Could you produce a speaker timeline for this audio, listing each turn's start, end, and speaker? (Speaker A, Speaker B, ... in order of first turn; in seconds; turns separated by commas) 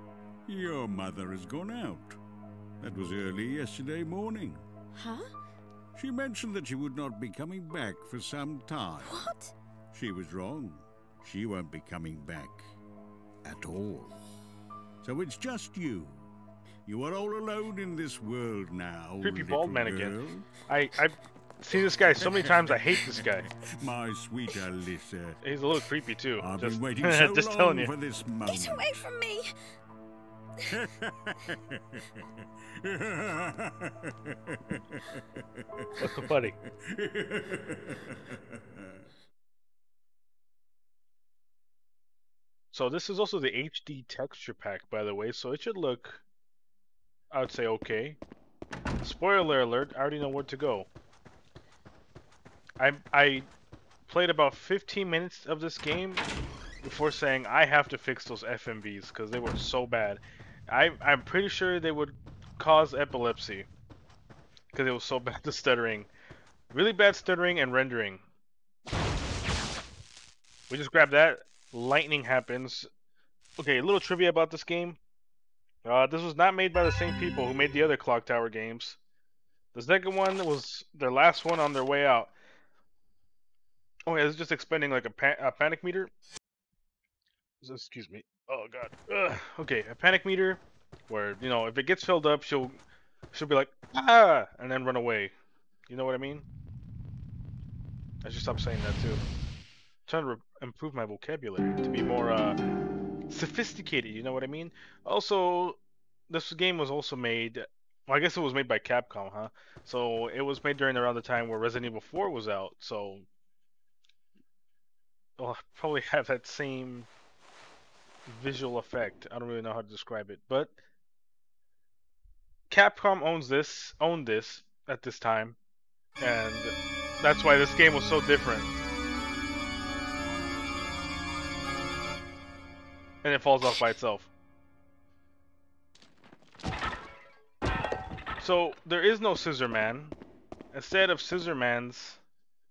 Speaker A: 0.5-2.2, Speaker A: 2.8-4.7, Speaker B: 5.0-5.3, Speaker A: 6.0-9.2, Speaker B: 9.0-9.5, Speaker A: 9.9-12.7, Speaker A: 13.4-14.2, Speaker A: 15.0-16.2, Speaker A: 16.9-20.5, Speaker C: 19.2-23.5, Speaker A: 22.2-25.4, Speaker C: 25.4-27.9, Speaker A: 26.4-28.9, Speaker B: 28.5-29.5, Speaker A: 30.7-39.0, Speaker C: 36.0-36.5, Speaker C: 42.7-46.2, Speaker C: 47.3-48.2, Speaker C: 49.0-50.9, Speaker C: 52.8-53.5, Speaker C: 54.1-56.2, Speaker C: 56.8-63.7, Speaker C: 64.7-66.1, Speaker C: 66.7-68.2, Speaker C: 70.7-72.9, Speaker C: 73.6-75.0, Speaker C: 75.8-79.0, Speaker C: 79.7-82.3, Speaker C: 84.1-86.1, Speaker C: 87.6-92.8, Speaker C: 93.3-95.3, Speaker C: 95.9-96.5, Speaker C: 98.2-99.2, Speaker C: 100.1-102.6, Speaker C: 103.3-105.8, Speaker C: 106.3-113.2, Speaker C: 115.4-117.1, Speaker C: 118.3-120.8, Speaker C: 122.7-125.6, Speaker C: 126.2-128.7, Speaker C: 133.2-134.3, Speaker C: 138.4-140.2, Speaker C: 140.7-142.2